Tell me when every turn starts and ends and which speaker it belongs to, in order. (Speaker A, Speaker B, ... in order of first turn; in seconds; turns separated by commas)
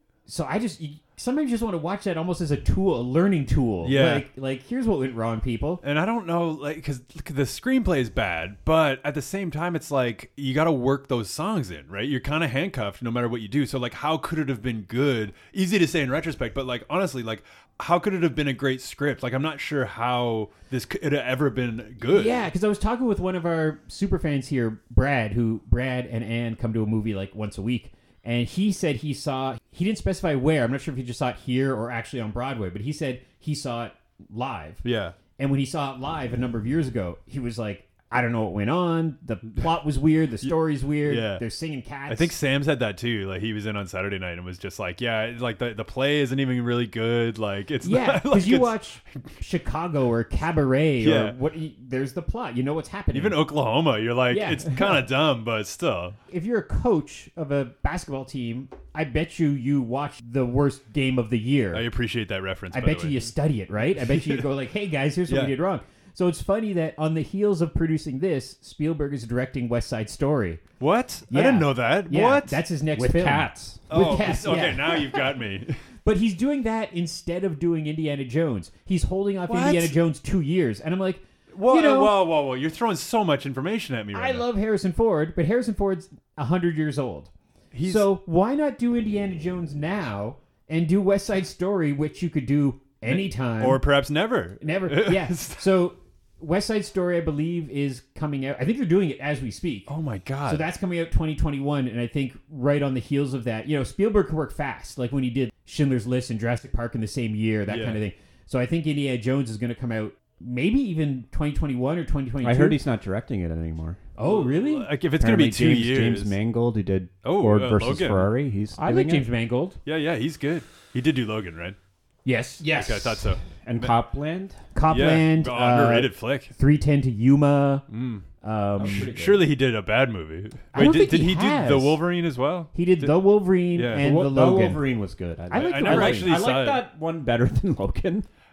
Speaker A: 0.3-5.8, Speaker B: 3.8-4.3, Speaker B: 5.8-22.5, Speaker A: 22.0-34.9, Speaker B: 34.8-35.2, Speaker A: 35.4-42.4, Speaker B: 41.0-41.4, Speaker B: 42.1-49.2, Speaker A: 47.8-53.4, Speaker B: 51.0-51.4, Speaker B: 53.1-56.2, Speaker A: 54.3-55.0, Speaker A: 56.3-61.9, Speaker B: 61.7-63.3, Speaker A: 62.7-70.6, Speaker B: 63.9-64.5, Speaker B: 65.3-65.5, Speaker B: 70.8-72.6, Speaker A: 71.3-75.3, Speaker C: 73.0-73.8, Speaker B: 73.9-75.8, Speaker A: 76.0-82.2, Speaker B: 79.5-80.0, Speaker B: 81.5-84.5, Speaker A: 84.1-87.3, Speaker B: 87.7-88.1, Speaker A: 87.8-93.8, Speaker B: 93.1-95.7, Speaker A: 94.6-99.9, Speaker B: 99.9-100.7, Speaker A: 100.5-112.8, Speaker B: 107.7-108.0, Speaker C: 112.4-114.0, Speaker A: 114.2-114.9, Speaker B: 114.2-116.4, Speaker C: 115.2-119.3, Speaker B: 117.2-118.3, Speaker A: 118.8-119.8, Speaker B: 119.8-121.8, Speaker A: 122.2-123.2, Speaker C: 122.6-124.6, Speaker B: 122.7-124.0, Speaker A: 124.7-127.8, Speaker B: 124.9-126.5, Speaker B: 127.9-128.3, Speaker A: 128.4-129.1, Speaker C: 128.8-129.5, Speaker B: 128.8-133.2, Speaker A: 130.7-132.0, Speaker A: 132.7-134.8, Speaker B: 133.8-134.1, Speaker C: 134.0-138.3, Speaker A: 135.5-136.4, Speaker B: 135.5-136.8